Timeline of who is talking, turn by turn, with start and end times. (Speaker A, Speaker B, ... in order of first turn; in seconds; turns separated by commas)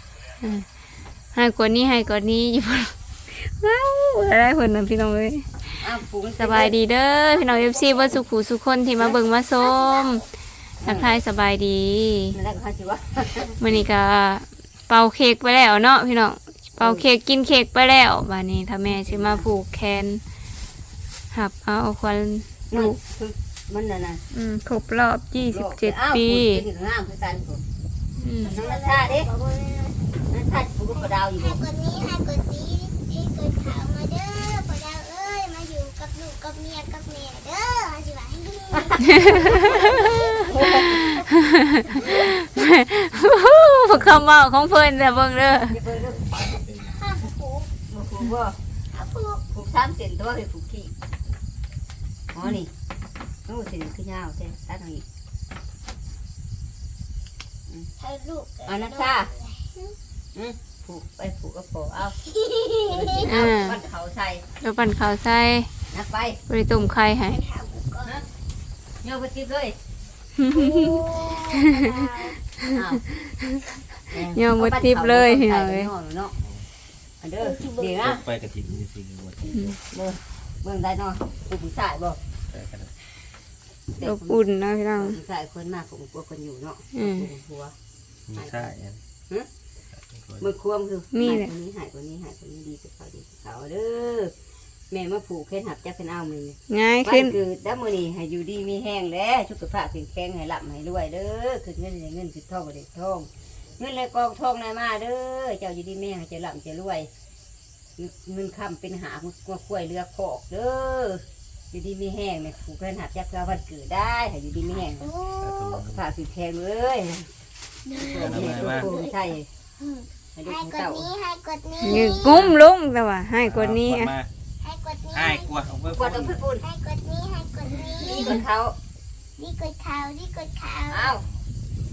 Speaker A: 0.4-0.7, Speaker A: 1.3-5.8, Speaker B: 5.8-6.8, Speaker A: 6.4-10.2, Speaker C: 7.3-8.2, Speaker C: 9.6-10.2, Speaker A: 10.8-12.4, Speaker B: 10.8-11.1, Speaker B: 12.3-13.5, Speaker A: 13.6-20.2, Speaker B: 16.8-17.0, Speaker B: 18.9-19.5, Speaker A: 21.3-23.0, Speaker B: 22.7-24.2, Speaker A: 24.3-26.6, Speaker B: 25.5-27.6, Speaker A: 28.2-28.5, Speaker C: 28.4-30.1, Speaker B: 28.5-29.3, Speaker B: 30.2-31.6, Speaker C: 30.9-40.5, Speaker B: 38.7-39.8, Speaker B: 40.4-41.2, Speaker A: 40.7-41.0, Speaker A: 42.1-45.8, Speaker B: 45.7-46.3, Speaker D: 46.5-46.9, Speaker C: 46.8-47.7, Speaker B: 47.9-48.6, Speaker C: 48.9-49.4, Speaker B: 49.5-50.9, Speaker B: 52.3-52.7, Speaker B: 53.5-55.0, Speaker C: 58.0-60.0, Speaker B: 58.7-59.3, Speaker B: 60.3-62.2, Speaker C: 62.3-63.3, Speaker B: 62.9-64.4, Speaker A: 63.2-63.8, Speaker A: 64.6-65.7, Speaker B: 65.9-66.4, Speaker A: 66.5-67.4, Speaker C: 67.3-68.2, Speaker B: 69.0-69.8, Speaker C: 70.5-72.4, Speaker A: 70.6-70.9, Speaker B: 72.7-73.0, Speaker B: 74.1-76.3, Speaker A: 74.1-75.9, Speaker B: 77.2-78.2, Speaker C: 77.4-78.1, Speaker D: 78.0-79.8, Speaker B: 79.9-82.2, Speaker D: 82.5-82.9, Speaker B: 84.0-87.7, Speaker A: 84.0-85.2, Speaker A: 86.9-87.3, Speaker D: 88.3-89.0, Speaker D: 89.9-90.5, Speaker B: 90.4-94.3, Speaker A: 91.1-91.5, Speaker B: 94.9-107.1, Speaker A: 96.7-97.3, Speaker B: 108.0-115.1, Speaker C: 115.0-115.8, Speaker D: 115.4-116.0, Speaker B: 115.9-117.3, Speaker C: 117.8-122.4, Speaker B: 118.0-119.5, Speaker D: 118.2-118.9, Speaker B: 120.3-121.1, Speaker A: 121.8-124.1, Speaker D: 123.4-124.3, Speaker C: 124.6-125.5, Speaker D: 125.1-126.3, Speaker B: 125.9-126.6, Speaker C: 126.6-128.4, Speaker B: 128.0-128.8, Speaker C: 129.4-131.2, Speaker B: 130.9-131.2